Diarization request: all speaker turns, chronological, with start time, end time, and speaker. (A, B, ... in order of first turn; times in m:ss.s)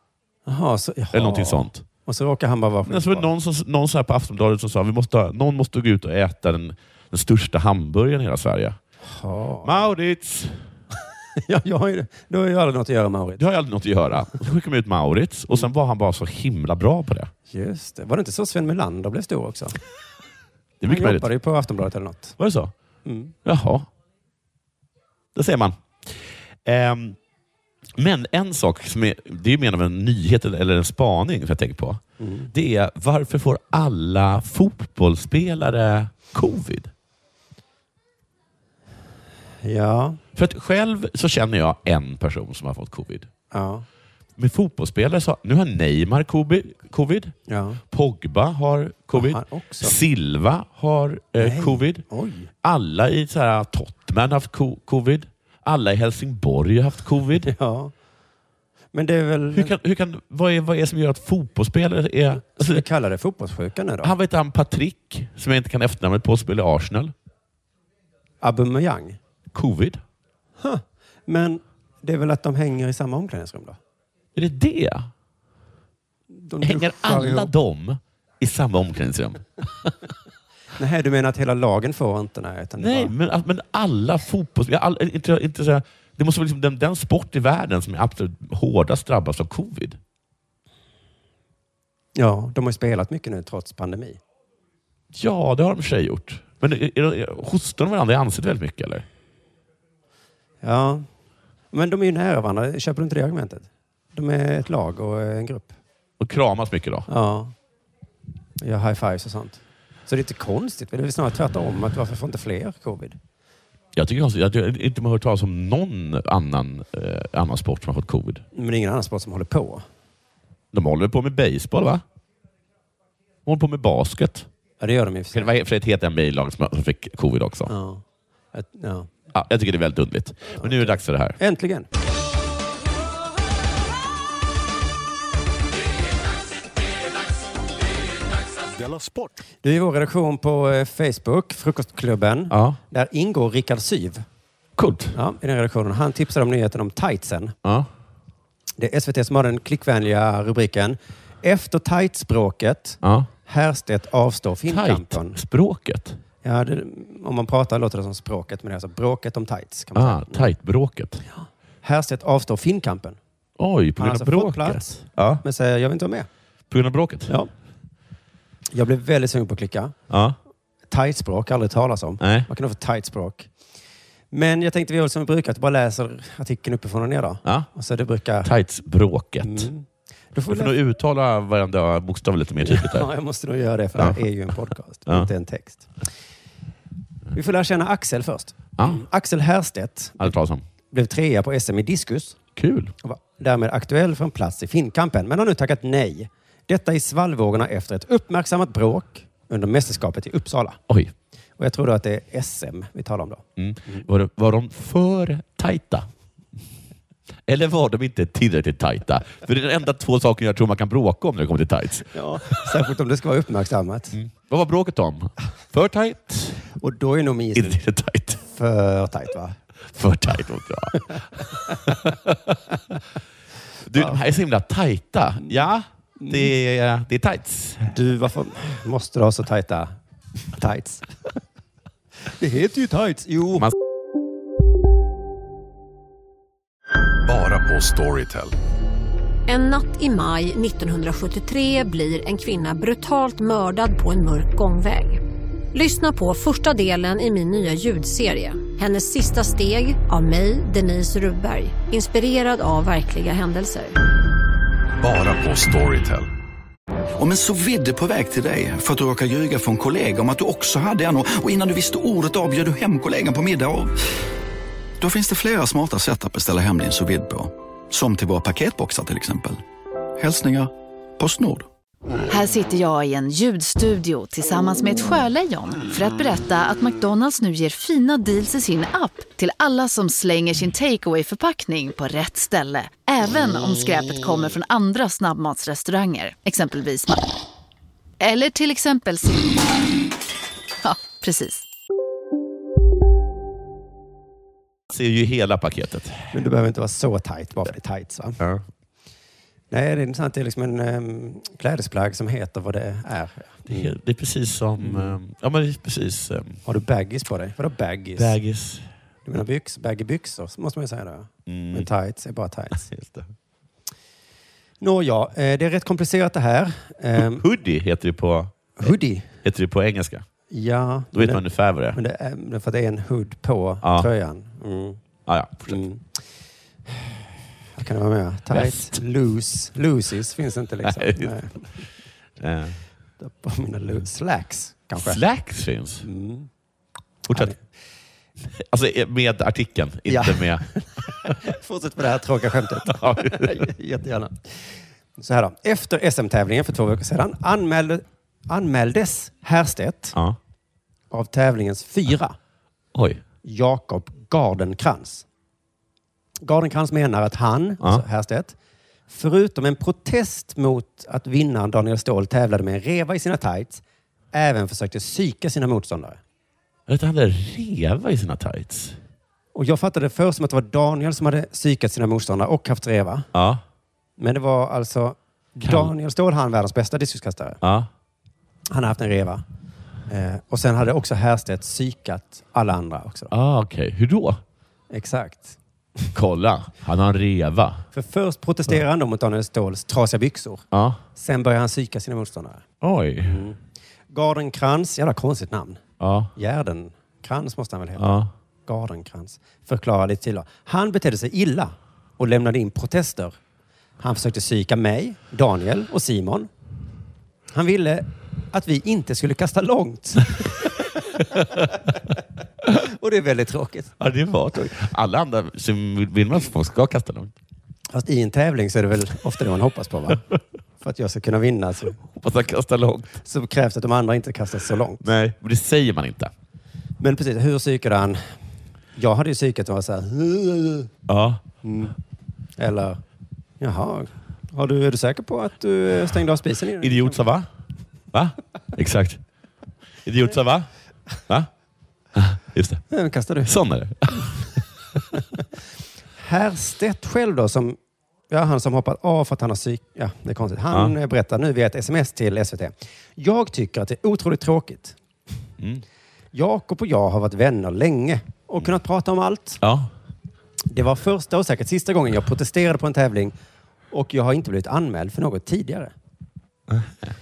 0:00.4-0:03.3 A
0:01.1-0:01.8 B
0:02.8-0:08.8 B
0:09.0-0:09.9 A
0:09.6-0:10.6 B
0:11.4-0:13.4 A
0:13.4-0:17.3 B
0:17.5-0:19.8 A
0:20.8-0:21.3 B
0:20.9-0:22.4 A
0:22.4-0:22.7 B
0:23.0-0:23.3 A
0:23.4-0:23.9 B
0:25.3-0:27.2 B
0:28.0-0:32.0 B
0:32.2-0:32.5 A
0:32.5-0:36.9 B
0:39.6-0:40.2 A
0:40.3-0:43.3 B
0:43.5-0:43.8 A
0:44.4-0:47.3 B
0:47.5-0:47.8 A
0:47.9-0:52.0 B
0:49.1-0:50.0 A
0:51.4-0:52.5 A
0:52.6-0:57.5 B
0:57.4-0:57.9 A
0:58.9-0:59.7 A
0:59.5-1:02.8 B
1:02.5-1:04.1 A
1:04.0-1:07.1 B
1:08.4-1:09.2 A
1:09.5-1:10.0 B
1:10.6-1:13.8 A
1:14.3-1:15.1 B
1:16.3-1:17.5 A
1:16.6-1:19.9 B
1:20.8-1:23.1 A
1:22.8-1:30.0 B
1:32.2-1:34.2 A
1:35.1-1:39.0 B
1:40.6-1:41.0 A
1:41.7-1:45.7 A
1:46.2-1:47.1 B
1:47.1-1:47.5 A
1:48.6-1:53.2 A
1:53.9-1:58.4 B
1:58.5-1:59.8 A
2:00.7-2:02.0 B
2:03.4-2:04.5 B
2:04.8-2:05.5 A
2:05.3-2:07.7 B
2:07.7-2:08.0 A
2:08.5-2:09.1 A
2:09.3-2:11.4 B
2:10.5-2:11.9 A
2:19.6-2:24.2 A
2:22.5-2:22.8 B
2:24.8-2:25.1 B
2:25.1-2:27.6 A
2:28.8-2:35.4 A
2:33.0-2:33.3 B
2:34.7-2:36.2 B
2:36.4-2:40.5 A
2:39.9-2:41.2 B
2:41.3-2:43.2 A
2:43.6-2:45.4 B
2:44.0-2:46.3 A
2:46.7-2:47.3 B
2:48.7-2:49.9 A
2:50.1-2:50.4 B
2:50.9-2:53.5 A
2:52.2-2:52.5 B
2:54.3-2:58.5 A
2:58.4-2:59.7 B
2:59.4-3:00.7 A
3:00.5-3:03.1 B
3:02.6-3:05.9 A
3:07.3-3:10.3 A
3:10.2-3:10.6 B
3:10.9-3:12.4 A
3:12.6-3:12.9 B
3:13.0-3:20.8 A
3:21.6-3:24.0 A
3:23.6-3:26.1 B
3:27.5-3:32.6 B
3:32.1-3:34.1 A
3:34.1-3:36.6 B
3:36.8-3:37.8 A
3:37.5-3:38.4 B
3:38.5-3:39.6 A
3:39.9-3:42.6 B
3:43.8-3:47.9 B
3:46.2-3:46.5 A
3:47.9-3:50.0 A
3:50.5-3:51.1 A
3:52.4-3:53.7 A
3:57.3-3:58.5 C
3:59.5-4:05.2 D
4:05.7-4:13.9 D
4:15.0-4:16.3 C
4:17.2-4:23.9 E
4:25.0-4:29.6 E
4:30.2-4:31.7 E
4:32.3-4:47.2 F
4:48.2-4:49.6 F
4:50.8-4:51.6 F
4:54.9-4:56.3 B
4:56.3-4:58.4 A
4:58.4-4:58.6 B
4:59.7-5:03.9 A
5:03.7-5:06.6 B
5:04.8-5:05.2 A
5:06.6-5:08.4 A
5:08.2-5:08.9 B
5:09.2-5:12.9 A
5:11.5-5:11.9 B
5:12.9-5:13.3 B
5:14.8-5:17.4 A
5:17.2-5:18.9 B
5:18.8-5:19.3 A
5:19.4-5:20.2 B
5:20.5-5:25.0 A
5:21.1-5:22.0 B
5:23.8-5:24.1 B
5:25.2-5:25.8 B
5:25.7-5:26.1 A
5:27.8-5:31.6 A
5:28.5-5:29.0 B
5:30.8-5:31.4 B
5:32.4-5:32.8 B
5:33.2-5:35.2 A
5:34.9-5:36.0 B
5:36.0-5:36.5 A
5:37.3-5:37.5 B
5:37.3-5:37.6 A
5:38.4-5:40.6 B
5:40.1-5:44.6 A
5:42.8-5:43.6 B
5:45.2-5:50.2 A
5:51.1-5:52.4 A
5:52.9-5:53.2 B
5:53.4-5:55.2 A
5:56.4-5:58.6 A
5:59.1-6:06.2 A
6:06.9-6:09.0 B
6:09.5-6:13.3 A
6:13.3-6:13.6 B
6:14.2-6:17.6 A
6:15.6-6:15.9 B
6:17.6-6:17.9 B
6:18.7-6:19.4 A
6:20.1-6:23.3 A
6:23.3-6:24.4 B
6:24.9-6:26.1 A
6:26.1-6:27.8 B
6:27.9-6:32.6 A
6:30.7-6:31.0 B
6:32.8-6:33.4 B
6:33.2-6:33.6 A
6:34.1-6:35.8 A
6:36.0-6:36.3 B
6:36.3-6:43.4 A
6:38.0-6:38.3 B
6:44.0-6:46.5 A
6:47.5-6:51.6 A
6:51.4-6:51.6 B
6:52.7-6:54.0 A
6:54.0-6:57.3 B
6:57.9-7:00.2 A
7:00.8-7:02.0 A
7:02.1-7:03.1 B
7:03.2-7:05.0 A
7:05.0-7:06.3 B
7:07.0-7:08.3 A
7:08.9-7:10.9 A
7:11.1-7:11.4 B
7:11.6-7:12.0 A
7:12.6-7:13.0 A
7:13.6-7:17.2 A
7:16.8-7:17.5 B
7:18.1-7:19.2 B
7:20.0-7:20.7 B
7:22.1-7:22.8 B
7:22.9-7:23.5 A
7:23.4-7:24.6 B
7:26.2-7:27.8 A
7:28.3-7:35.0 A
7:30.7-7:30.9 B
7:36.3-7:39.6 A
7:39.6-7:39.9 B
7:40.7-7:43.3 A
7:43.9-7:45.9 A
7:46.7-7:47.1 B